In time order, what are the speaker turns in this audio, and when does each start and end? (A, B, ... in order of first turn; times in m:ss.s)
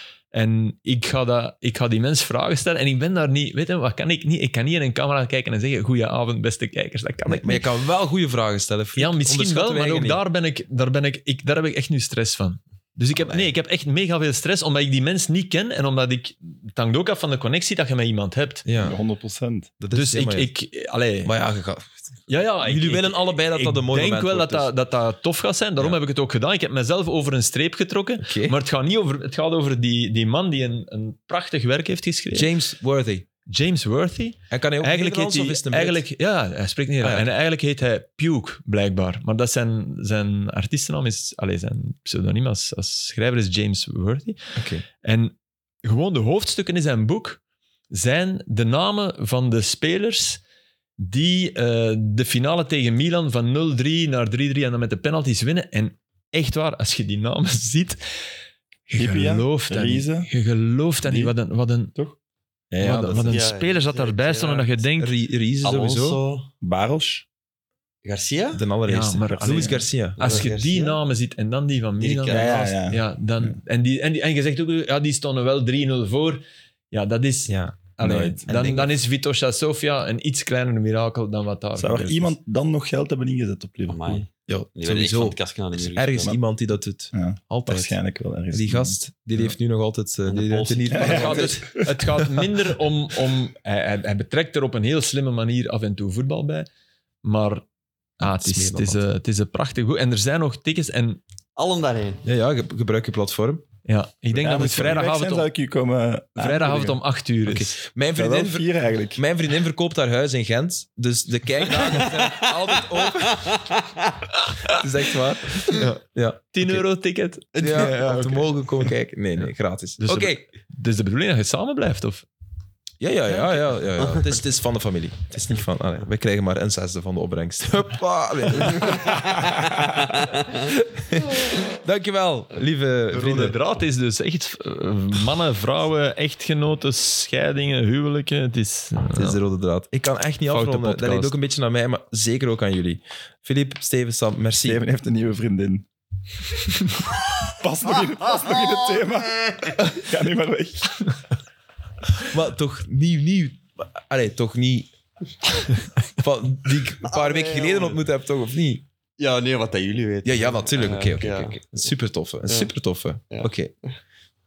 0:00.3-0:07.7 A
0:07.3-0:10.2 B
0:09.0-0:18.7 A
0:13.2-0:13.5 B
0:18.6-0:19.0 B
0:18.8-0:19.7 C
0:19.8-0:20.5 B
0:19.9-0:21.3 A
0:21.2-0:22.1 B
0:22.3-0:32.5 A
0:22.6-0:24.7 B
0:28.2-0:28.6 B
0:32.3-0:33.3 B
0:33.5-0:44.4 A
0:34.5-0:36.0 B
0:37.0-0:37.3 B
0:44.6-0:44.8 B
0:45.0-0:47.4 A
0:47.9-0:50.4 A
0:51.0-0:58.0 A
0:58.9-1:00.3 C
0:59.0-1:02.0 A
1:01.0-1:01.4 C
1:02.7-1:03.3 C
1:02.7-1:03.4 B
1:02.8-1:05.1 A
1:03.2-1:04.8 D
1:05.0-1:06.2 B
1:05.6-1:06.5 D
1:06.6-1:07.3 C
1:08.0-1:08.6 D
1:08.5-1:10.4 B
1:08.9-1:22.4 A
1:09.3-1:09.8 C
1:09.4-1:11.0 D
1:12.0-1:12.7 D
1:12.3-1:13.6 C
1:17.5-1:18.9 B
1:21.8-1:24.2 C
1:23.9-1:26.3 D
1:24.5-1:28.0 B
1:27.1-1:29.0 C
1:28.5-1:31.6 B
1:30.3-1:31.7 D
1:30.9-1:31.8 C
1:31.0-1:36.7 A
1:37.2-1:37.6 A
1:38.2-1:41.2 A
1:38.2-1:39.0 B
1:41.6-1:42.2 D
1:42.2-1:43.6 B
1:43.9-1:45.5 A
1:44.3-1:47.0 C
1:46.4-1:47.8 A
1:47.5-1:53.7 B
1:48.2-1:49.2 C
1:51.7-1:54.3 D
1:54.7-1:56.8 B
1:55.7-1:56.0 A
1:56.5-1:58.5 A
1:57.6-1:58.2 D
1:57.6-2:00.4 B
2:00.0-2:02.3 A
2:03.0-2:13.6 B
2:04.0-2:04.3 D
2:08.6-2:10.7 D
2:13.1-2:19.4 A
2:19.1-2:24.8 B
2:20.5-2:21.3 A
2:24.6-2:25.9 C
2:26.5-2:31.2 C
2:32.2-2:34.9 B
2:36.0-2:38.8 B
2:37.0-2:38.0 D
2:39.2-2:41.9 D
2:40.2-2:43.7 B
2:42.5-2:42.7 D